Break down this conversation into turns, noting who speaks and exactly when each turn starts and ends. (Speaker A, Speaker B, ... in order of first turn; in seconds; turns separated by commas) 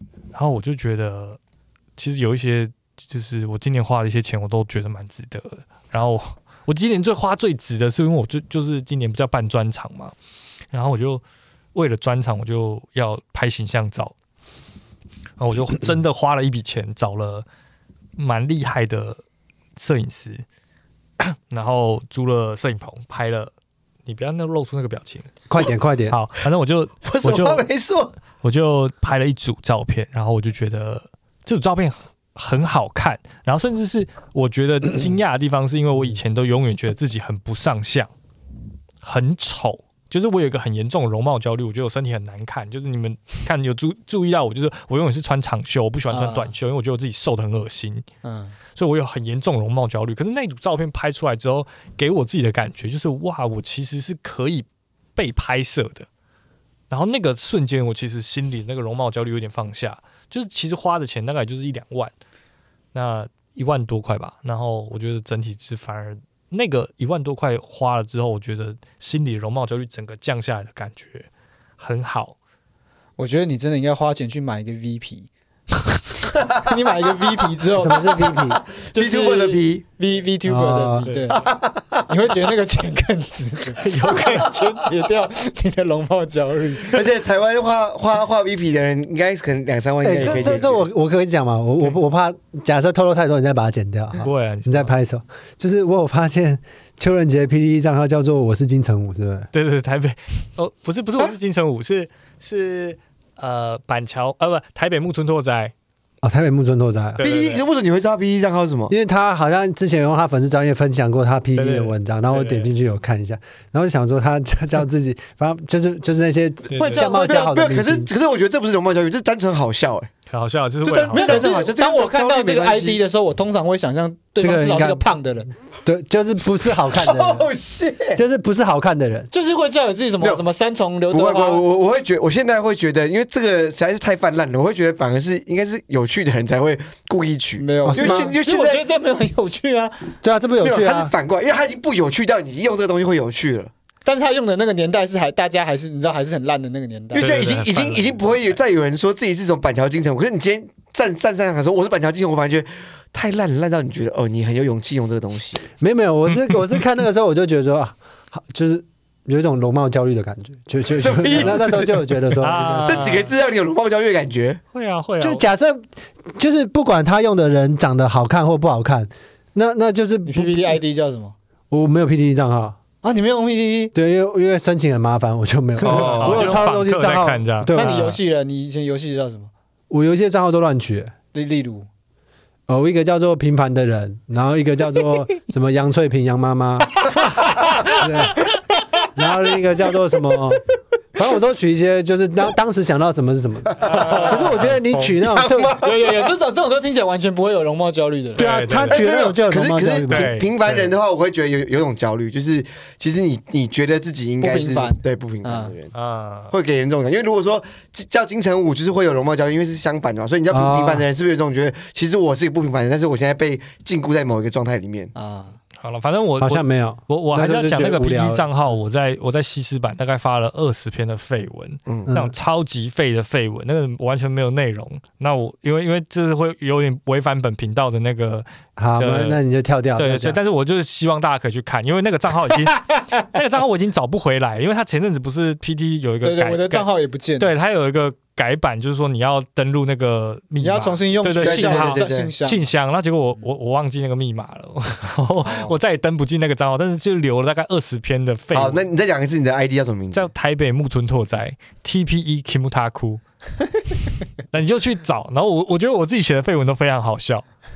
Speaker A: 0.3-1.4, Speaker A: 2.0-10.2, Speaker A: 10.7-11.2, Speaker A: 11.8-14.1, Speaker A: 15.4-17.5, Speaker A: 18.2-19.2, Speaker A: 19.8-20.4, Speaker A: 21.2-23.5, Speaker A: 24.1-25.3, Speaker B: 25.5-26.2, Speaker A: 26.1-27.7, Speaker C: 27.1-28.1, Speaker A: 28.4-38.1, Speaker A: 39.0-48.0, Speaker D: 46.1-46.5, Speaker D: 48.2-48.6, Speaker A: 48.7-56.1, Speaker A: 56.9-62.1, Speaker A: 62.9-71.3, Speaker A: 71.8-72.4, Speaker D: 73.2-81.5, Speaker B: 77.8-78.6, Speaker C: 78.9-79.8, Speaker B: 80.5-81.1, Speaker A: 81.0-81.4, Speaker C: 81.3-82.1, Speaker D: 82.1-87.1, Speaker A: 83.8-84.5, Speaker C: 86.9-90.9, Speaker B: 90.0-99.5, Speaker A: 94.2-94.9, Speaker A: 99.5-105.7, Speaker B: 106.2-107.2, Speaker A: 107.2-107.6, Speaker C: 107.2-108.9, Speaker B: 108.9-118.1, Speaker A: 111.5-112.7, Speaker A: 116.7-117.0, Speaker D: 116.8-117.5, Speaker C: 117.0-120.1, Speaker A: 120.3-121.5, Speaker C: 120.8-123.0, Speaker D: 121.1-125.5, Speaker B: 124.4-125.0, Speaker B: 125.8-127.5, Speaker C: 126.9-128.2, Speaker B: 128.2-129.3, Speaker D: 129.3-131.6, Speaker C: 131.1-138.8, Speaker D: 137.6-140.1, Speaker B: 137.8-138.3, Speaker B: 140.2-141.1, Speaker C: 140.6-143.7, Speaker D: 144.1-147.3, Speaker C: 147.1-155.6, Speaker A: 147.2-148.6, Speaker B: 155.8-163.1, Speaker C: 160.9-164.6, Speaker A: 162.4-163.3, Speaker A: 164.7-165.4, Speaker B: 165.2-165.8, Speaker B: 166.3-170.8, Speaker D: 170.3-171.3, Speaker B: 171.7-172.8, Speaker D: 173.0-173.9, Speaker B: 173.9-177.9, Speaker C: 175.8-176.6, Speaker A: 175.8-178.2, Speaker D: 177.7-179.5, Speaker B: 179.9-181.1, Speaker D: 181.3-181.9, Speaker B: 182.7-187.0, Speaker D: 187.0-188.0, Speaker B: 187.9-188.5, Speaker B: 189.2-195.8, Speaker C: 193.8-194.4, Speaker A: 193.9-195.2, Speaker D: 193.9-194.4, Speaker C: 195.2-196.2, Speaker D: 195.8-198.5, Speaker A: 198.3-199.0, Speaker B: 198.4-200.3, Speaker C: 198.9-205.9, Speaker A: 200.1-200.9, Speaker D: 204.4-205.8, Speaker A: 205.9-206.6, Speaker C: 206.5-215.1, Speaker B: 210.5-211.0, Speaker D: 215.2-215.6, Speaker A: 215.8-228.5, Speaker B: 216.4-218.5, Speaker B: 228.8-230.4, Speaker A: 229.0-229.4, Speaker A: 230.0-248.8, Speaker D: 236.2-237.5, Speaker D: 240.6-242.6, Speaker C: 241.4-242.3, Speaker D: 245.4-245.7, Speaker C: 248.5-250.3, Speaker A: 250.1-253.2, Speaker A: 254.5-257.4